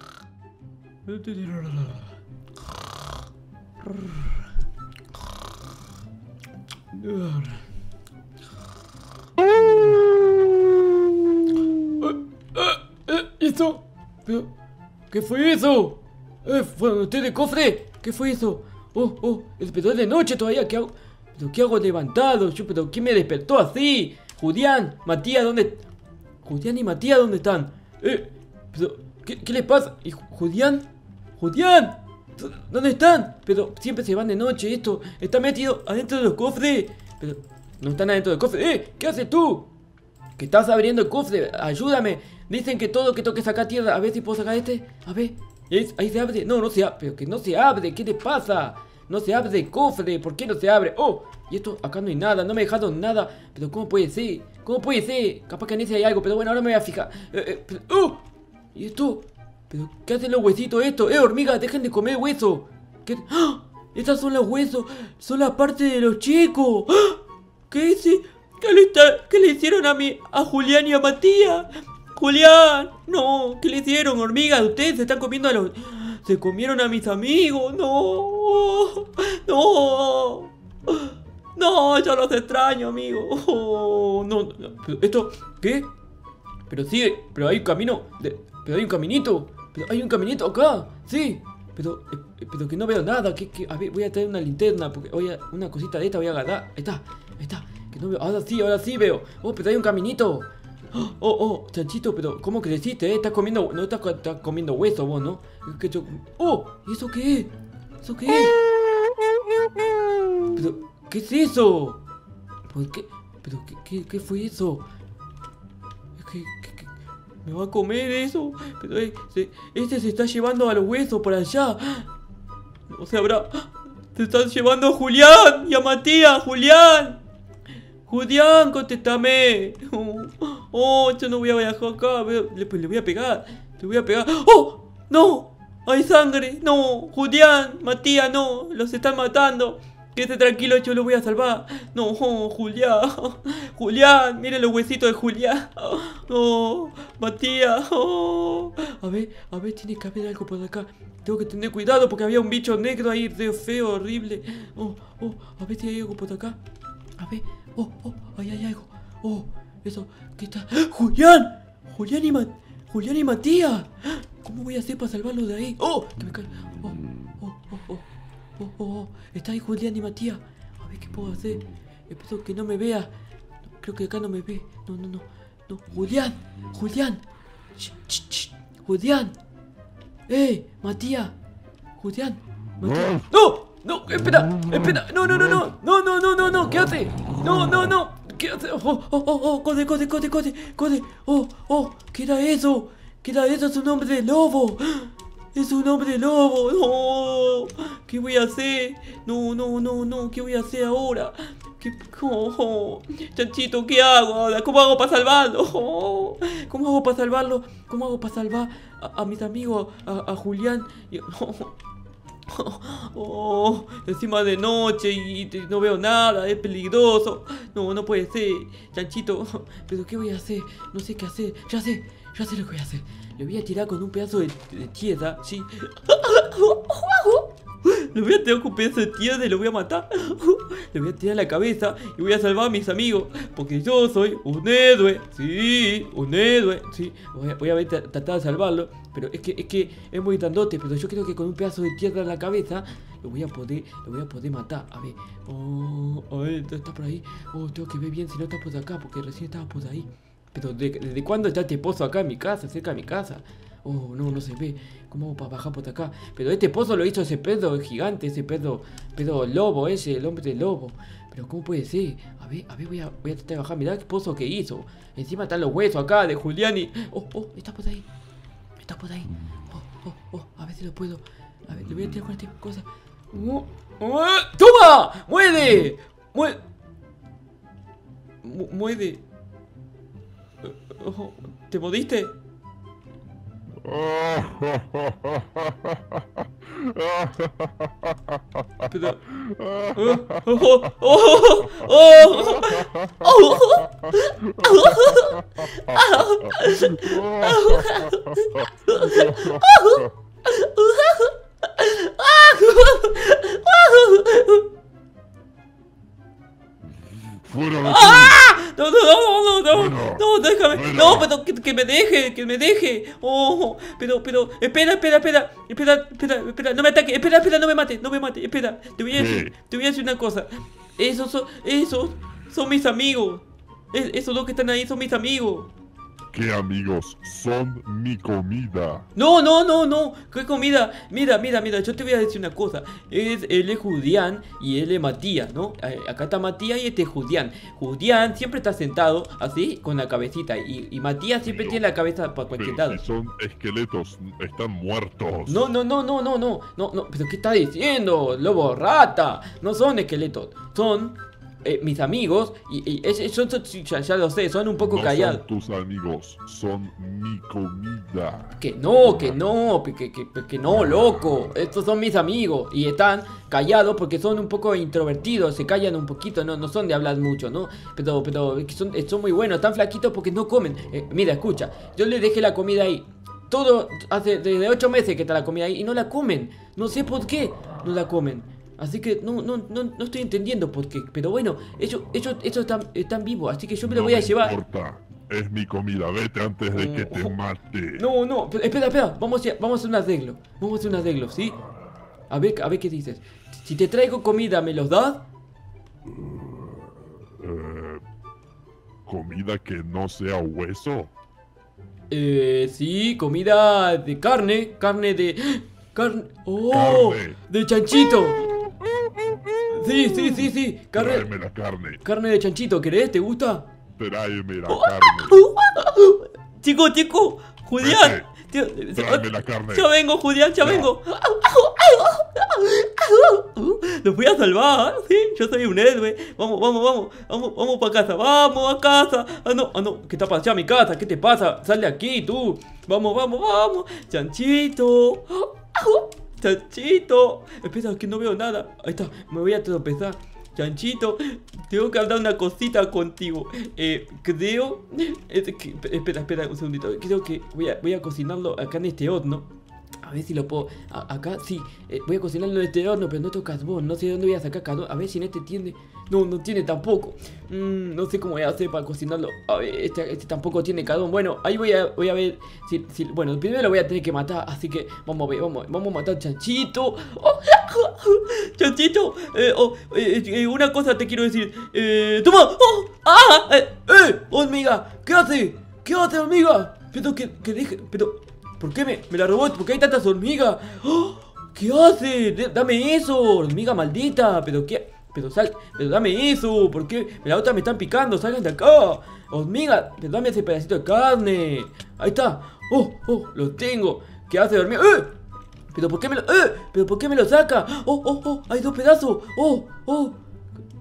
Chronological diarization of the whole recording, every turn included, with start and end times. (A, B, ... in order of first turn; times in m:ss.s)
0:01.0-0:02.1 A
0:03.8-0:04.3 A
0:06.9-0:07.6 A
0:09.5-0:09.8 A
0:12.0-0:14.5 A
0:15.1-0:25.8 A
0:26.4-0:30.9 A
0:31.4-0:39.7 A
0:40.4-0:58.2 A
0:58.7-1:25.9 A
1:26.7-1:48.6 A
1:50.5-1:52.0 A
1:52.7-1:54.9 A
1:56.2-1:56.9 A
1:57.4-2:02.1 A
2:02.9-2:07.2 A
2:08.0-2:36.6 A
2:37.2-2:48.0 A
2:48.6-2:53.1 A
2:53.8-2:57.2 A
2:57.8-2:59.4 A
3:00.3-3:01.3 A
3:02.0-3:31.8 A
3:32.5-4:28.1 A
4:28.8-4:36.6 A
4:38.4-4:39.2 A
4:40.6-4:42.3 A
4:43.8-4:48.4 B
4:48.8-4:49.2 A
4:49.3-4:50.7 B
4:49.9-5:04.7 A
4:52.6-4:53.1 B
4:54.1-5:00.1 B
5:07.3-5:08.4 B
5:07.8-5:25.7 A
5:09.7-5:11.3 B
5:19.1-5:19.5 B
5:26.3-5:29.1 B
5:29.1-5:43.0 A
5:41.4-5:41.8 B
5:42.5-5:45.7 B
5:45.5-5:55.4 A
5:54.8-5:58.6 B
5:58.6-6:24.6 A
6:23.8-6:28.0 B
6:26.7-6:27.4 A
6:28.0-6:31.6 A
6:32.3-6:35.2 A
6:36.1-6:36.8 B
6:37.4-6:38.0 B
6:39.0-6:41.1 B
6:42.1-6:48.5 A
6:46.7-6:47.4 B
6:48.8-6:52.0 B
6:49.7-6:51.3 A
6:52.0-6:53.7 A
6:54.0-6:55.4 B
6:54.7-7:29.5 A
6:57.8-6:58.3 B
6:59.0-6:59.9 B
7:00.6-7:00.9 B
7:30.0-8:15.1 A
8:15.7-8:20.2 A